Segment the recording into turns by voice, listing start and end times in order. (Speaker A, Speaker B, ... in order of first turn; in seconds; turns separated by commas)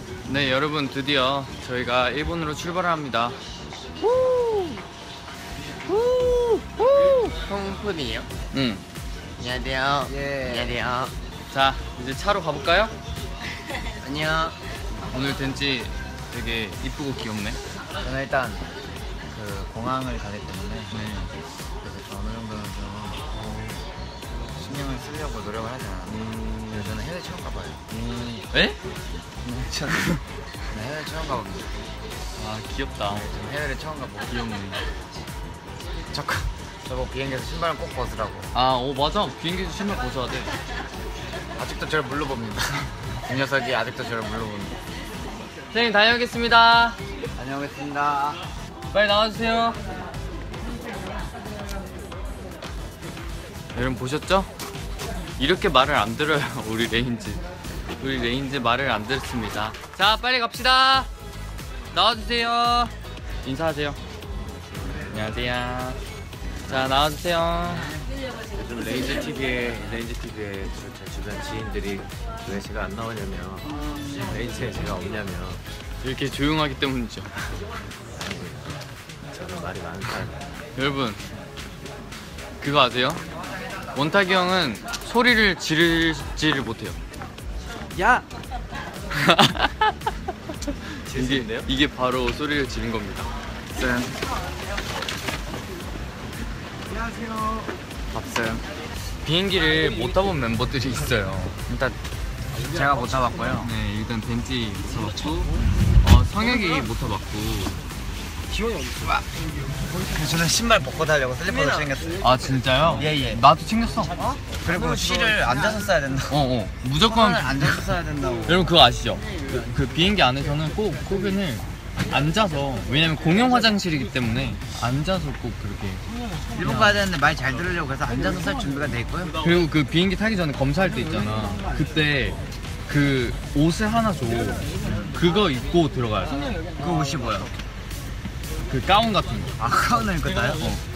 Speaker A: 0.2-3.4, Speaker A: 6.7-7.3, Speaker B: 7.4-8.3, Speaker A: 8.5-8.8, Speaker B: 9.4-11.1, Speaker C: 10.1-10.8, Speaker A: 11.5-12.9, Speaker B: 14.0-14.6, Speaker A: 15.1-17.6, Speaker C: 18.0-18.7, Speaker C: 19.3-21.0, Speaker A: 20.9-21.3, Speaker C: 21.8-23.3, Speaker C: 24.5-28.4, Speaker A: 28.5-28.8, Speaker C: 29.4-30.1, Speaker C: 30.7-31.8, Speaker A: 32.4-33.2, Speaker C: 33.1-34.4, Speaker A: 34.3-34.8, Speaker C: 36.1-38.5, Speaker A: 38.5-40.5, Speaker C: 41.6-44.8, Speaker A: 45.7-47.0, Speaker C: 47.4-48.5, Speaker A: 48.9-49.8, Speaker A: 53.7-54.5, Speaker A: 55.4-57.4, Speaker A: 58.0-61.1, Speaker A: 61.9-64.0, Speaker A: 65.1-66.0, Speaker A: 66.7-68.0, Speaker D: 68.5-75.6, Speaker A: 76.0-77.3, Speaker D: 78.2-78.8, Speaker D: 79.3-80.5, Speaker A: 80.8-81.2, Speaker A: 82.6-83.2, Speaker A: 83.9-87.0, Speaker A: 89.4-89.8, Speaker A: 91.1-93.3, Speaker D: 91.1-91.7, Speaker C: 93.7-94.1, Speaker C: 98.1-98.6, Speaker A: 99.1-101.7, Speaker C: 101.7-102.0, Speaker C: 102.6-103.7, Speaker A: 103.5-105.5, Speaker A: 106.0-107.8, Speaker C: 109.0-109.3, Speaker C: 110.0-112.3, Speaker B: 111.5-111.8, Speaker A: 112.2-114.1, Speaker C: 112.9-113.4, Speaker C: 114.6-118.7, Speaker A: 116.3-126.0, Speaker C: 126.5-129.4, Speaker A: 126.6-126.9, Speaker A: 129.4-136.4, Speaker C: 136.8-137.5, Speaker A: 138.7-139.5, Speaker C: 139.6-140.8